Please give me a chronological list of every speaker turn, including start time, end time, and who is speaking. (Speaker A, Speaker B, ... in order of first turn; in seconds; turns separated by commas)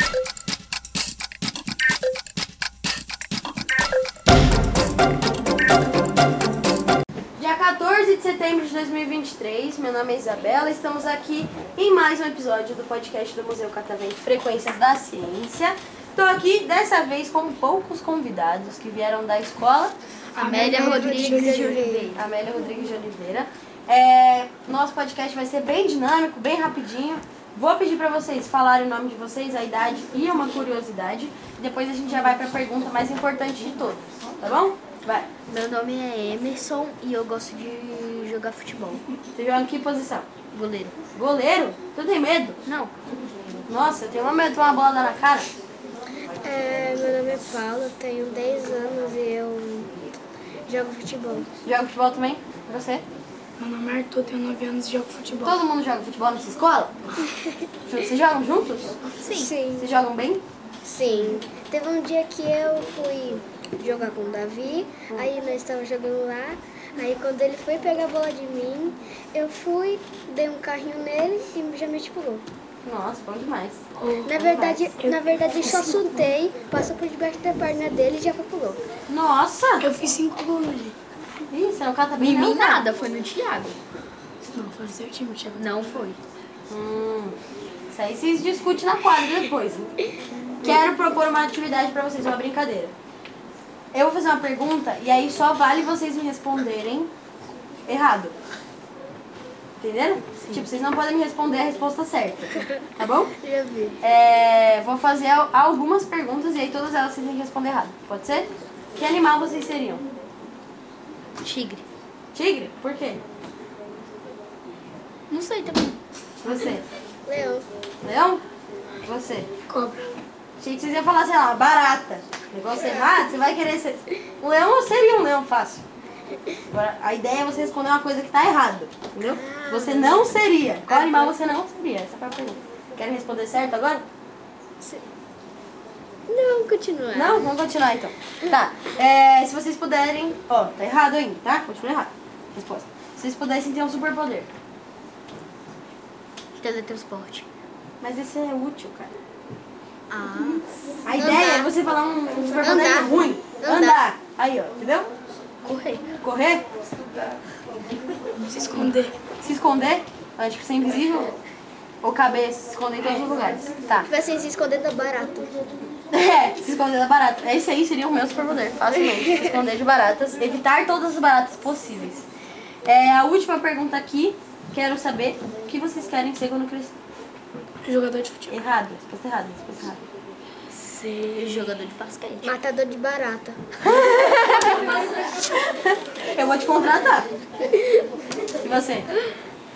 Speaker A: 7.4-19.9, Speaker B: 20.3-22.0, Speaker C: 20.4-22.2, Speaker D: 20.4-22.2, Speaker A: 22.1-35.3, Speaker C: 35.5-39.0, Speaker A: 39.3-40.3, Speaker C: 40.5-41.0, Speaker A: 41.0-42.6, Speaker C: 42.6-42.9, Speaker A: 43.7-45.5, Speaker D: 46.4-50.0, Speaker D: 50.7-51.5, Speaker A: 51.6-53.0, Speaker B: 53.6-55.6, Speaker A: 55.4-56.9, Speaker A: 57.9-59.0, Speaker C: 59.2-59.5, Speaker D: 59.2-59.9, Speaker A: 59.8-60.4, Speaker D: 60.8-72.4, Speaker A: 72.8-73.8, Speaker B: 74.0-76.0, Speaker D: 74.2-78.8, Speaker A: 79.1-79.8, Speaker B: 79.8-81.0, Speaker A: 81.5-82.8, Speaker C: 82.2-83.8, Speaker B: 84.4-86.0, Speaker C: 85.5-86.2, Speaker A: 86.7-87.4, Speaker A: 87.9-89.9, Speaker A: 90.6-92.9, Speaker A: 93.9-97.1, Speaker A: 97.8-98.3, Speaker A: 99.8-103.3, Speaker D: 103.4-104.0, Speaker A: 104.0-110.0, Speaker C: 111.4-111.8, Speaker A: 112.3-113.2, Speaker C: 115.3-116.0, Speaker A: 116.4-116.8, Speaker D: 117.2-117.7, Speaker A: 118.0-118.4, Speaker A: 119.0-119.5, Speaker B: 119.7-120.1, Speaker A: 120.6-125.8, Speaker A: 126.7-134.0, Speaker D: 129.2-130.3, Speaker D: 130.9-131.3, Speaker D: 136.3-137.6, Speaker A: 137.1-144.5, Speaker C: 146.6-147.4, Speaker A: 148.0-149.1, Speaker C: 150.1-150.7, Speaker A: 151.0-155.1, Speaker D: 151.1-151.7, Speaker D: 152.6-154.0, Speaker C: 155.6-156.1, Speaker A: 156.2-156.6, Speaker B: 158.4-159.1, Speaker A: 159.4-161.3, Speaker A: 162.0-164.1, Speaker D: 164.0-165.5, Speaker A: 166.1-172.2, Speaker A: 172.8-176.9, Speaker B: 177.8-178.6, Speaker A: 178.5-180.0, Speaker B: 180.7-181.7, Speaker C: 181.4-182.5, Speaker D: 182.4-183.6, Speaker A: 183.8-187.3, Speaker A: 188.6-189.1